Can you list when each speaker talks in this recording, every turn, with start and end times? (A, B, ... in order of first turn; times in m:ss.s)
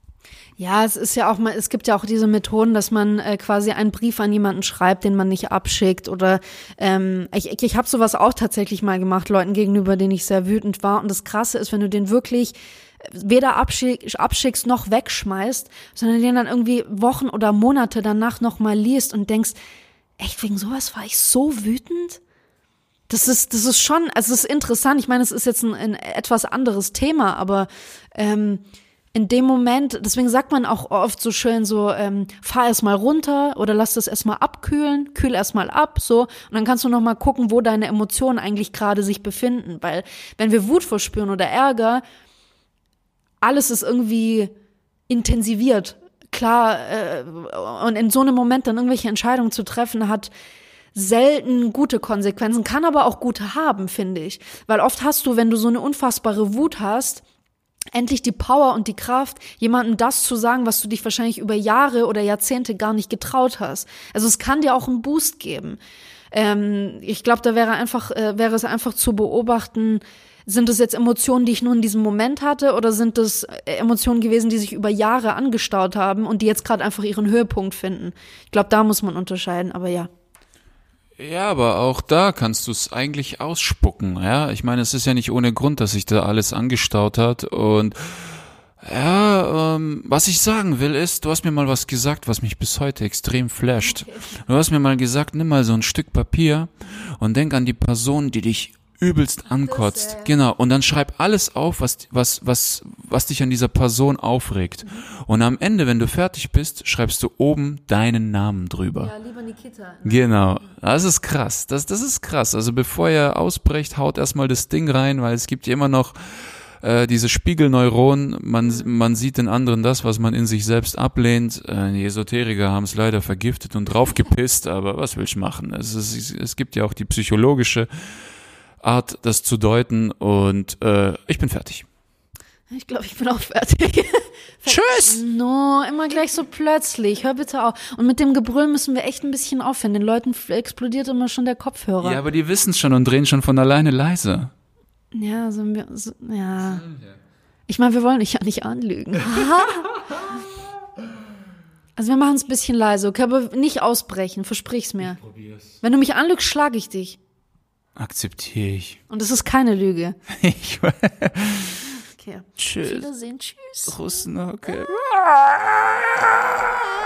0:00.6-0:19.6 A
0:20.2-0:22.2 A
0:23.1-0:28.6 A
0:29.1-0:42.0 A
0:43.4-0:44.5 A
0:45.1-0:50.3 A
0:50.9-0:57.2 A
0:57.9-1:05.8 A
1:06.3-1:20.1 A
1:21.2-1:28.3 B
1:28.8-1:49.1 B
1:39.6-1:40.3 A
1:49.0-1:50.2 A
1:50.0-2:07.9 B
2:08.8-2:11.8 B
2:12.7-2:22.2 A
2:14.7-2:15.2 B
2:22.0-2:24.5 B
2:25.1-2:26.8 A
2:26.6-2:27.2 B
2:27.7-2:30.0 A
2:32.0-2:35.2 A
2:35.2-2:35.6 B
2:35.8-2:37.2 A
2:38.0-2:39.0 B
2:39.1-2:40.2 A
2:40.3-2:41.8 B
2:42.2-2:44.1 A
2:42.6-2:43.1 B
2:43.9-2:46.3 B